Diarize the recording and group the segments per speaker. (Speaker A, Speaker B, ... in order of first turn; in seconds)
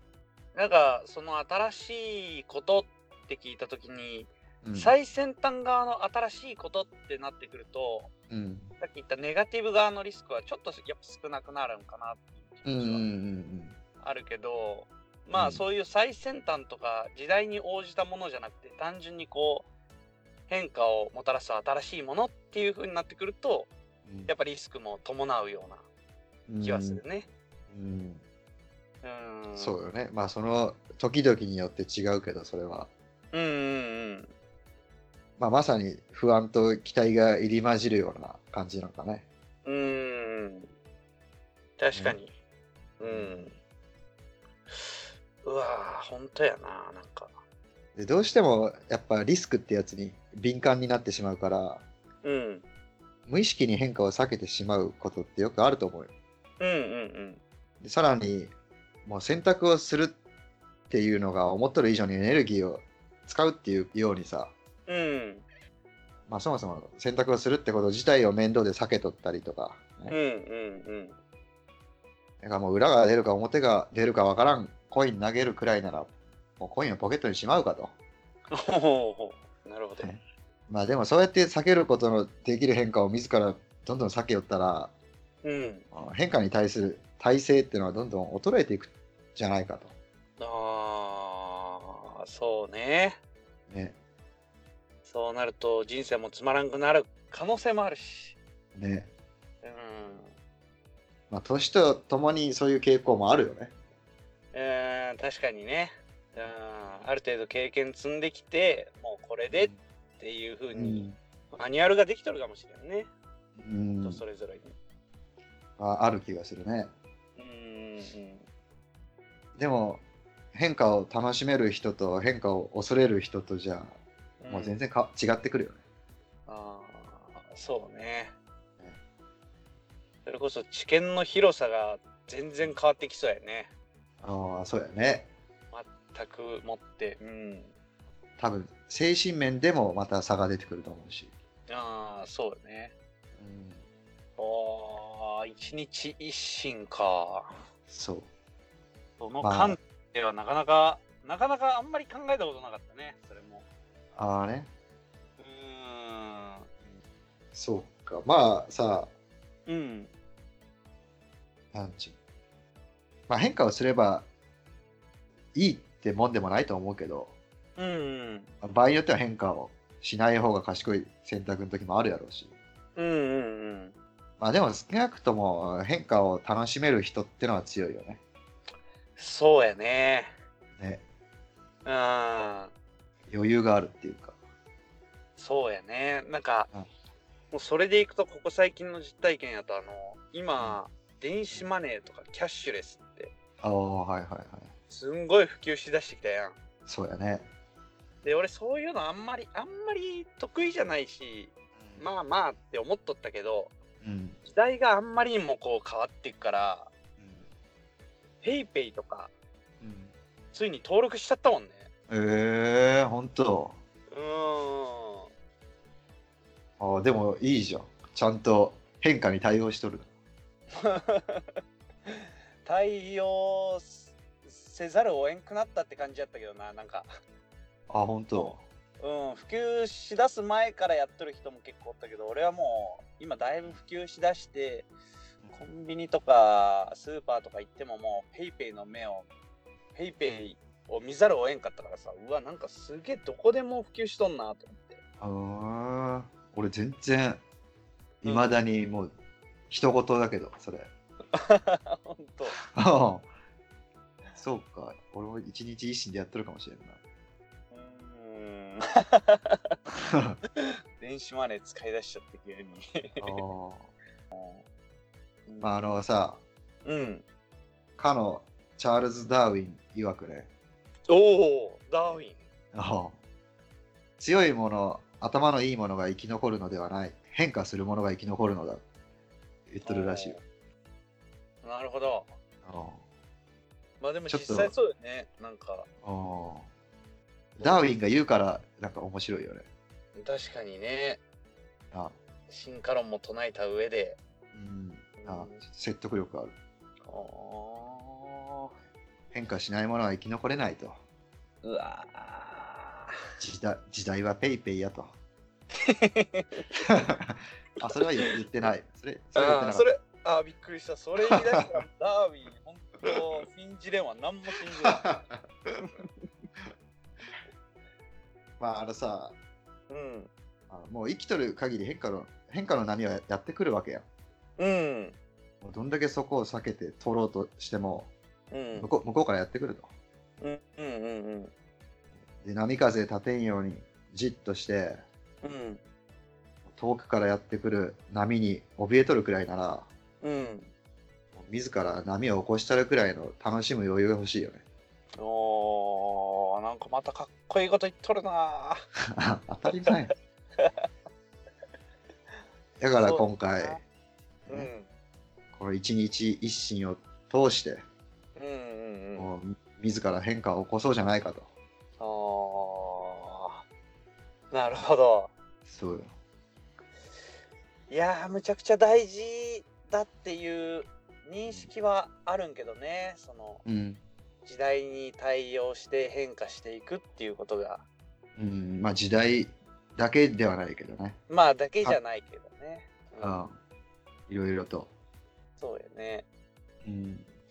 Speaker A: 0.5-8.1, 8.8-13.1, 14.0-19.7, 20.5-23.7, 24.3-25.8, 26.6-27.3, 29.0-29.7, 33.3-34.3, 39.6-40.7, 41.8-42.3, 43.0-43.5, 44.7-47.3, 52.2-52.6, 56.6-57.4, 64.9-65.4, 70.1-71.2, 78.5-80.1, 85.4-85.8, 90.4-93.2, 95.0-98.4, 99.6-100.3, 104.5-113.1, 114.0-114.7, 117.4-118.4, 124.4-124.8, 126.5-128.3, 130.2-133.7, 135.7-137.7, 141.7-142.9, 144.4-147.5, 149.2-153.6, 155.4-156.7, 159.7-160.1, 167.8-168.5, 172.9-173.9, 179.2-180.3, 181.8-182.7, 185.4-186.7, 187.5-193.3, 194.9-196.6, 198.2-203.7, 204.4-206.9, 208.4-209.3, 210.5-211.9, 214.1-215.3, 220.7-227.1, 228.3-234.9, 235.5-239.3, 239.9-245.0, 248.2-248.6, 251.3-252.6, 257.7-259.8, 260.6-263.4, 264.3-264.6, 265.5-265.8, 266.8-267.2, 271.1-272.4, 279.8-280.4, 281.6-282.3, 284.0-285.9, 290.1-291.2, 292.5-294.2, 295.2-295.6, 297.1-298.7, 301.6-303.1, 305.7-306.9, 307.9-308.4, 309.3-315.1, 319.9-320.3, 324.6-325.2, 328.5-328.9, 330.4-331.5, 335.4-335.8, 340.2-340.7, 345.2-348.8, 349.8-350.7, 353.0-353.8, 354.5-354.9, 358.4-359.3, 362.0-363.6, 364.5-365.3, 367.9-373.6, 374.4-377.8, 381.3-383.5, 385.6-386.2
Speaker B: 4.6-4.9, 8.3-8.7, 12.7-13.7, 15.3-15.6, 24.1-24.3, 26.5-27.0, 27.7-28.2, 29.6-32.9, 35.4-39.2, 43.0-43.5, 48.0-51.8, 53.3-56.1, 57.8-58.5, 59.0-60.1, 60.9-64.5, 66.3-70.1, 72.4-77.9, 80.0-84.9, 85.9-89.9, 93.7-93.9, 98.7-99.1, 101.3-103.7, 109.5-109.8, 110.7-111.2, 113.6-114.2, 115.8-116.9, 119.6-120.0, 120.5-124.0, 124.5-125.8, 134.2-135.3, 138.4-141.3, 143.4-143.8, 147.9-148.3, 149.4-149.8, 154.2-154.7, 157.5-159.1, 161.7-162.2, 163.3-164.2, 165.5-167.3, 168.6-172.5, 174.4-178.2, 183.3-184.3, 193.6-194.7, 196.8-197.4, 204.0-204.4, 207.2-207.4, 209.8-210.1, 212.1-213.8, 216.8-220.1, 227.9-228.6, 245.2-247.4, 248.2-249.1, 249.7-250.9, 252.7-253.3, 254.4-257.0, 259.9-260.4, 263.2-263.9, 265.6-266.4, 268.0-270.5, 272.7-273.1, 274.2-278.8, 279.7-280.4, 282.6-283.0, 284.3-284.7, 286.0-286.6, 287.6-289.7, 294.5-296.5, 299.3-301.0, 303.4-305.1, 306.8-309.9, 311.2-311.7, 314.8-316.0, 318.6-319.4, 320.7-324.0, 325.6-328.1, 328.8-329.9, 332.4-335.0, 336.7-339.9, 341.3-344.6, 349.1-350.1, 352.8-353.8, 355.5-357.8, 359.1-361.5, 365.6-366.1, 373.6-374.0, 378.4-381.2, 383.2-383.5, 384.3-384.9, 386.8-387.3